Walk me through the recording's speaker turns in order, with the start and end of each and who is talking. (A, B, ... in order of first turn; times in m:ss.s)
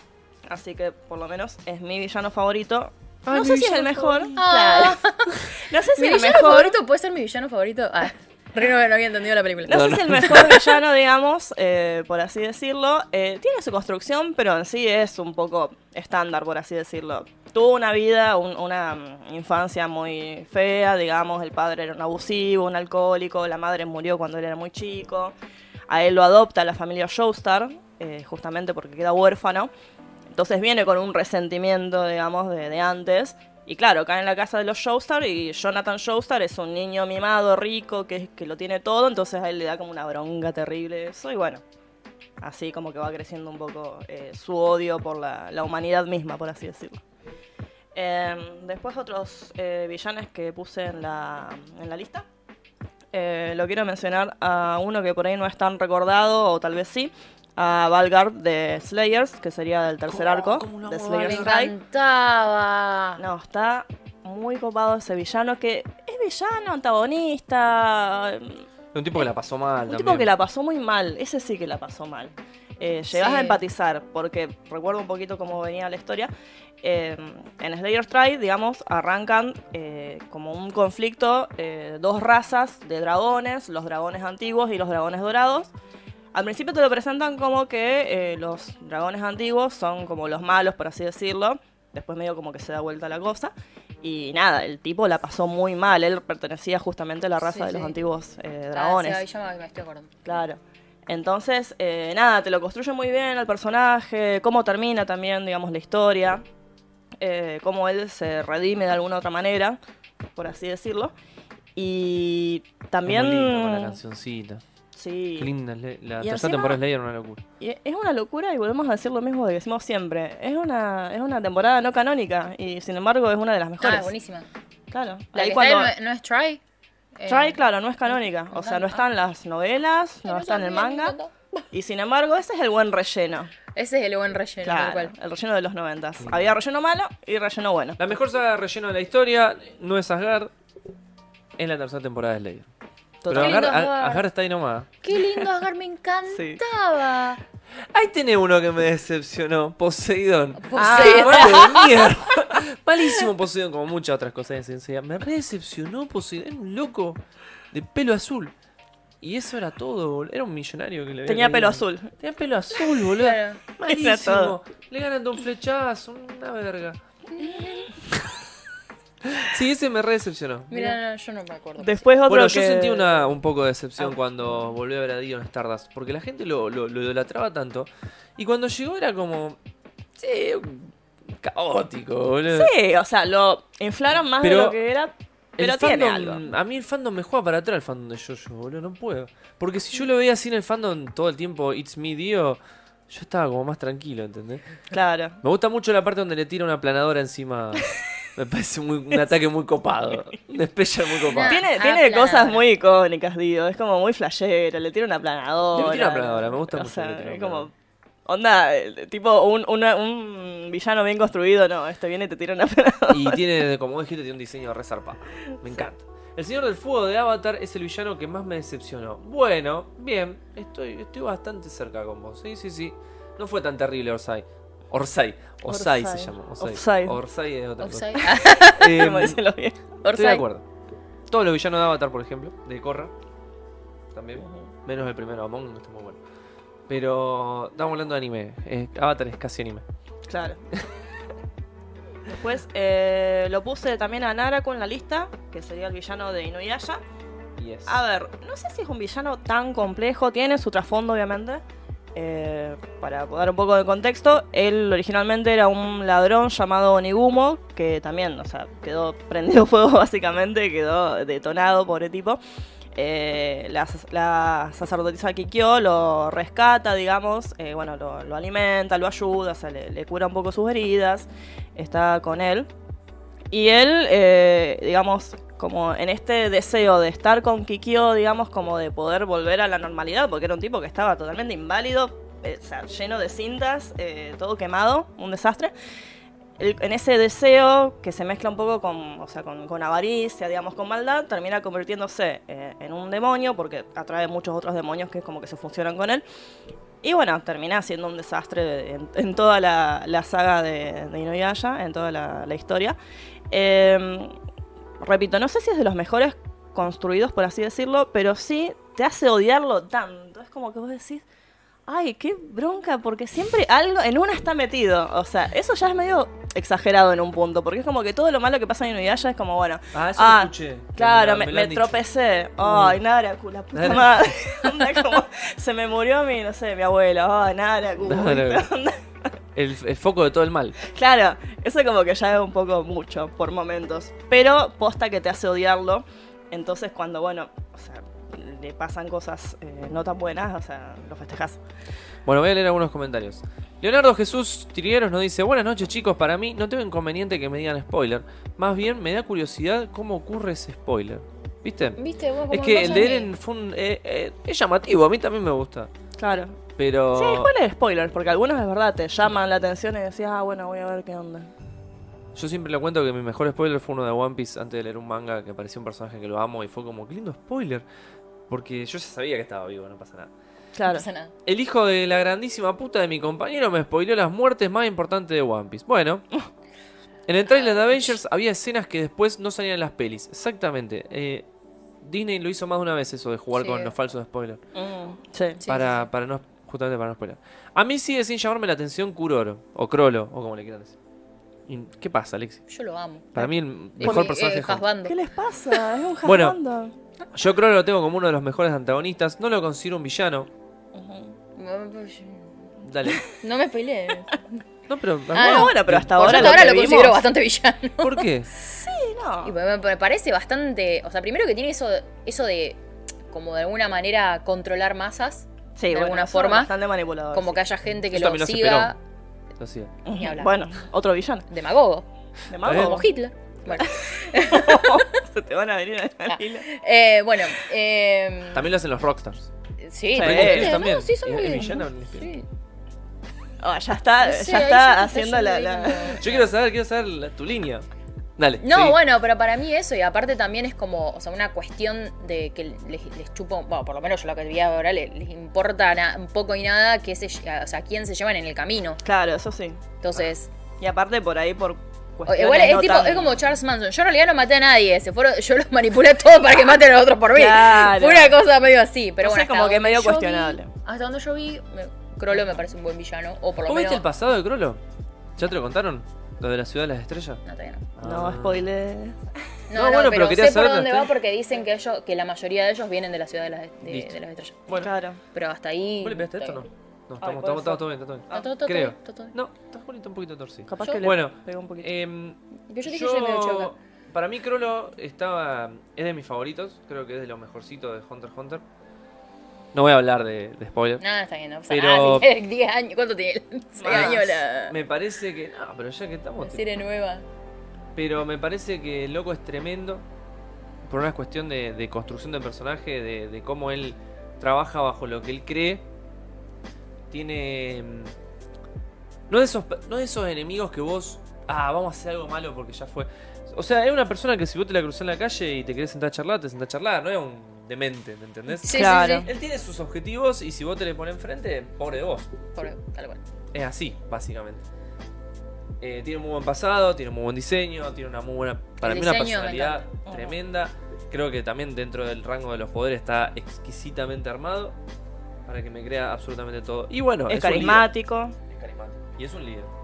0:00.5-0:06.8 A
0:03.2-0:04.4 B
0:04.4-0:10.5 C
0:09.7-0:25.3 A
0:09.7-0:10.6 B
0:25.9-0:29.7 A
0:30.3-0:41.6 A
0:42.4-0:47.0 A
0:47.9-0:52.2 A
0:53.1-1:01.7 A
1:00.1-1:01.6 B
1:01.2-1:03.2 C
1:03.2-1:08.6 A
1:08.9-1:10.3 B
1:09.8-1:16.3 A
1:13.1-1:13.6 C
1:16.8-1:25.7 A
1:26.3-1:33.5 A
1:34.0-1:39.2 A
1:37.4-1:37.9 C
1:38.7-1:40.2 C
1:40.2-1:46.4 A
1:47.2-1:49.8 A
1:50.4-1:51.1 A
1:51.8-1:54.0 A
1:53.0-1:54.6 B
1:54.9-1:55.5 A
1:55.4-1:57.4 B
1:56.2-1:56.8 A
1:57.6-2:04.1 A
2:03.8-2:04.4 C
2:04.9-2:05.9 A
2:05.3-2:06.6 C
2:07.2-2:09.0 C
2:07.3-2:11.2 A
2:10.2-2:11.6 C
2:11.7-2:13.5 A
2:13.7-2:15.1 C
2:14.6-2:18.0 A
2:16.2-2:16.5 B
2:18.0-2:20.5 B
2:21.6-2:22.7 B
2:23.2-2:23.7 A
2:23.3-2:24.9 B
2:23.3-2:24.2 C
2:25.0-2:27.4 C
2:26.3-2:26.6 A
2:27.9-2:37.2 B
2:30.6-2:32.0 C
2:30.8-2:31.8 A
2:37.7-2:38.5 B
2:39.2-2:47.0 B
2:41.3-2:42.1 A
2:43.2-2:43.6 C
2:43.8-2:44.6 A
2:47.4-2:47.7 C
2:47.4-2:47.9 A
2:48.1-2:48.4 B
2:49.2-2:51.0 B
2:50.7-2:52.0 C
2:51.8-2:53.3 A
2:52.2-2:59.6 B
3:00.2-3:02.7 B
3:02.5-3:06.4 A
3:04.4-3:04.8 B
3:05.6-3:14.6 B
3:14.9-3:15.4 A
3:15.4-3:21.6 B
3:21.3-3:22.6 C
3:21.4-3:27.7 A
3:25.7-3:27.7 B
3:28.2-3:33.4 A
3:33.1-3:49.4 B
3:45.7-3:47.2 A
3:47.8-3:49.0 C
3:48.2-3:49.8 A
3:50.0-3:50.4 C
3:50.1-3:50.6 B
3:51.3-3:53.1 B
3:54.1-3:56.2 B
3:54.4-3:54.7 A
3:56.9-3:59.8 B
4:00.3-4:00.6 A
4:02.3-4:07.0 A
4:07.6-4:08.0 B
4:07.9-4:11.6 A
4:12.1-4:22.4 A
4:22.9-4:32.7 A
4:33.5-4:45.7 A
4:46.6-4:56.2 A
4:57.0-5:03.0 A
5:03.5-5:04.3 A
5:05.0-5:11.2 A
5:11.9-5:29.0 A
5:19.9-5:22.0 B
5:22.6-5:23.0 B
5:23.7-5:24.2 B
5:28.0-5:28.7 B
5:29.5-5:30.8 B
5:30.8-5:41.6 A
5:42.2-5:52.0 B
5:52.0-5:53.3 C
5:52.5-5:55.9 B
5:56.2-5:56.6 A
5:56.8-5:57.5 B
5:57.1-6:01.5 A
6:02.3-6:07.8 B
6:08.5-6:10.3 B
6:10.8-6:11.0 A
6:10.9-6:11.3 C
6:11.4-6:16.2 B
6:17.3-6:21.5 B
6:22.0-6:24.6 B
6:23.6-6:23.9 C
6:24.7-6:25.6 A
6:25.6-6:26.0 C
6:25.7-6:31.0 B
6:31.7-6:32.6 B
6:32.7-6:33.5 C
6:33.3-6:34.8 B
6:34.0-6:35.2 C
6:34.0-6:34.3 A
6:35.0-6:36.9 A
6:36.2-6:36.6 B
6:37.3-6:40.5 B
6:40.9-6:41.4 A
6:41.6-6:42.6 C
6:42.8-6:43.2 B
6:43.2-6:44.6 C
6:44.9-6:46.8 B
6:45.3-6:48.2 C
6:45.3-6:47.2 A
6:48.0-6:48.5 B
6:48.6-6:49.5 A
6:49.4-6:52.8 C
6:53.3-6:56.7 C
6:55.8-6:57.6 A
6:57.3-6:59.0 C
6:58.1-6:58.9 B
6:59.6-6:59.9 B
7:00.0-7:01.4 A
7:00.1-7:00.5 C
7:01.5-7:02.0 C
7:02.5-7:03.1 A
7:02.6-7:03.0 B
7:02.6-7:05.2 C
7:03.7-7:06.6 A
7:06.3-7:08.7 C
7:08.5-7:09.5 B
7:09.8-7:12.5 C
7:10.2-7:10.8 A
7:10.2-7:12.3 B
7:13.6-7:16.2 A
7:14.2-7:16.5 C
7:16.2-7:17.8 B
7:18.4-7:19.0 B
7:18.6-7:29.0 C
7:29.0-7:29.8 A
7:30.0-7:30.5 C
7:30.8-7:33.4 A
7:32.2-7:44.0 C
7:37.3-7:38.4 A
7:39.2-7:40.7 A
7:42.3-7:42.6 A
7:43.6-7:44.8 B
7:45.4-7:47.4 B
7:47.4-7:47.9 C
7:48.0-7:48.6 B
7:48.0-7:49.2 A
7:49.7-7:54.7 C
7:49.7-7:51.1 B
7:53.8-7:54.9 B
7:54.8-7:55.2 A
7:55.3-7:56.6 C
7:56.0-8:08.6 B
7:57.2-7:58.5 A
7:58.3-7:59.3 C
8:00.7-8:01.9 A
8:02.7-8:03.7 C
8:09.7-8:11.0 B
8:11.0-8:14.8 C
8:11.7-8:12.3 B
8:13.8-8:14.4 A
8:13.9-8:16.6 B
8:16.4-8:17.2 C
8:17.9-8:20.0 B
8:20.8-8:25.8 B
8:27.1-8:28.1 B
8:29.3-8:42.3 B
8:38.5-8:39.3 C
8:38.7-8:39.3 A
8:42.5-8:43.2 C
8:43.5-8:44.6 B
8:45.8-8:54.8 B
8:48.8-8:49.9 C
8:50.0-8:50.4 A
8:55.4-8:57.9 B
8:57.3-8:58.4 A
8:58.5-8:59.7 B